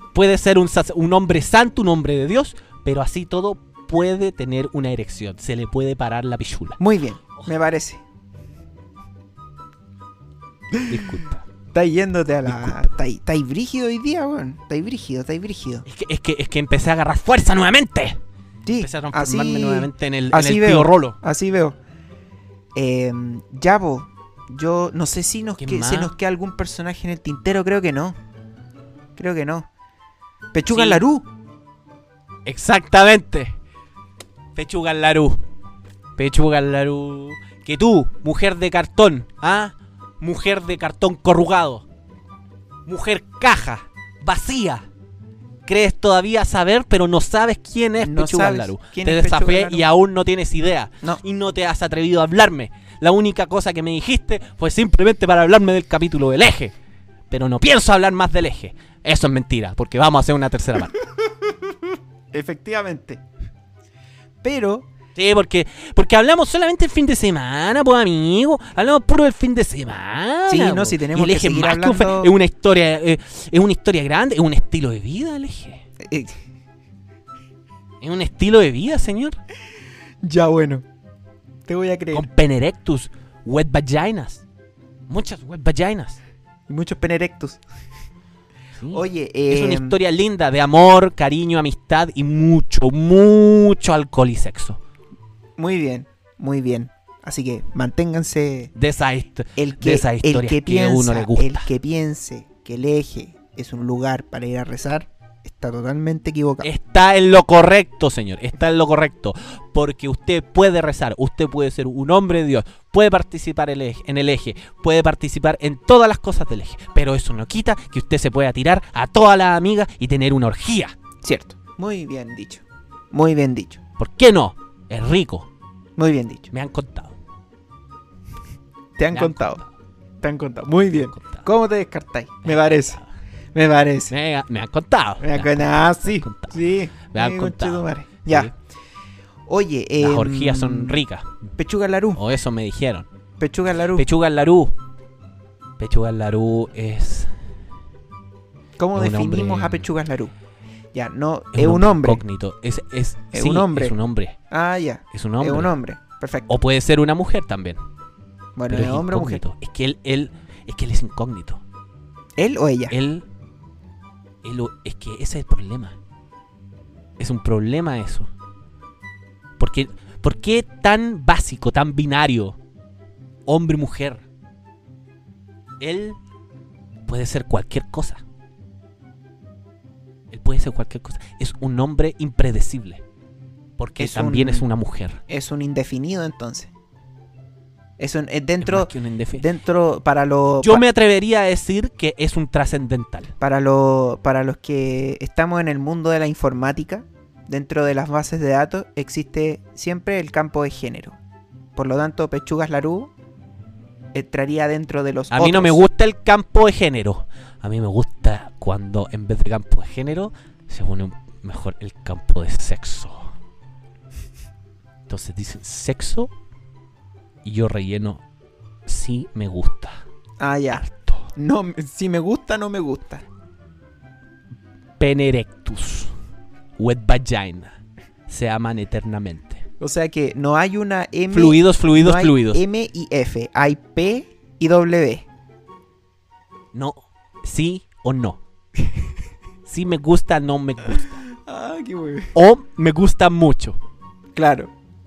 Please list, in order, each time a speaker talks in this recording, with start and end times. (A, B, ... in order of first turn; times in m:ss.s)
0:00.1-0:06.8 A
0:06.8-0:08.0 B
0:10.8-0:11.4 A
0:11.7-0:15.8 B
0:12.4-0:12.9 A
0:15.8-0:18.2 A
0:18.6-0:21.8 B
0:18.8-0:21.2 A
0:22.7-0:28.2 B
0:25.6-0:26.1 A
0:29.2-0:29.7 B
0:30.5-0:31.3 B
0:30.7-0:31.0 A
0:32.4-0:33.6 A
0:34.6-0:35.4 A
0:36.2-0:41.8 A
0:42.8-0:44.9 A
0:45.6-0:56.7 A
0:48.0-0:49.8 B
0:57.3-1:01.0 A
1:01.2-1:03.2 B
1:04.4-1:04.9 B
1:05.2-1:15.8 A
1:10.5-1:12.3 B
1:16.0-1:16.4 B
1:18.0-1:19.4 A
1:20.2-1:20.8 B
1:21.6-1:22.3 B
1:22.1-1:24.4 A
1:25.1-1:26.2 A
1:26.7-1:27.6 B
1:28.8-1:34.8 A
1:28.9-1:30.0 B
1:35.6-1:38.7 B
1:38.7-1:41.7 A
1:39.6-1:46.7 B
1:46.6-2:00.9 A
2:01.2-2:03.8 B
2:04.0-2:05.5 A
2:06.0-2:06.5 B
2:06.5-2:07.2 A
2:09.0-2:09.6 B
2:09.1-2:09.7 A
2:10.2-2:13.0 B
2:11.0-2:11.5 A
2:12.4-2:13.1 A
2:13.5-2:14.1 B
2:14.1-2:18.5 A
2:15.2-2:18.5 B
2:19.5-2:21.0 B
2:20.0-2:21.5 A
2:21.6-2:22.2 B
2:22.1-2:23.1 A
2:23.4-2:24.0 B
2:23.9-2:24.7 A
2:25.8-2:27.3 A
2:28.8-2:30.3 B
2:28.9-2:29.9 A
2:30.9-2:32.2 B
2:31.5-2:34.4 A
2:33.3-2:33.9 B
2:34.5-2:36.5 B
2:35.1-2:35.7 A
2:36.5-2:37.8 A
2:38.6-2:39.4 B
2:38.7-2:41.6 A
2:42.4-2:42.9 B
2:42.9-2:43.2 A
2:44.4-2:46.0 A
2:47.2-2:48.3 A
2:49.6-2:52.6 A
2:53.5-2:54.2 A
2:55.8-2:56.2 A
2:57.1-2:58.2 A
3:00.3-3:03.0 A
3:03.8-3:05.2 A
3:04.0-3:04.7 B
3:05.3-3:06.7 B
3:08.0-3:10.8 B
3:08.6-3:09.4 A
3:10.6-3:13.3 A
3:13.4-3:21.2 B
3:21.8-3:23.1 B
3:24.1-3:25.8 B
3:25.3-3:33.3 A
3:35.1-3:36.3 A
3:37.4-3:38.2 A
3:38.8-3:40.0 A
3:40.4-3:43.2 B
3:40.7-3:41.3 A
3:45.0-3:46.1 A
3:46.8-3:49.6 A
3:49.8-3:55.2 B
3:51.3-3:52.6 A
3:56.7-3:58.4 A
3:59.6-4:01.2 A
4:01.3-4:02.3 B
4:02.3-4:03.8 A
4:04.3-4:04.7 B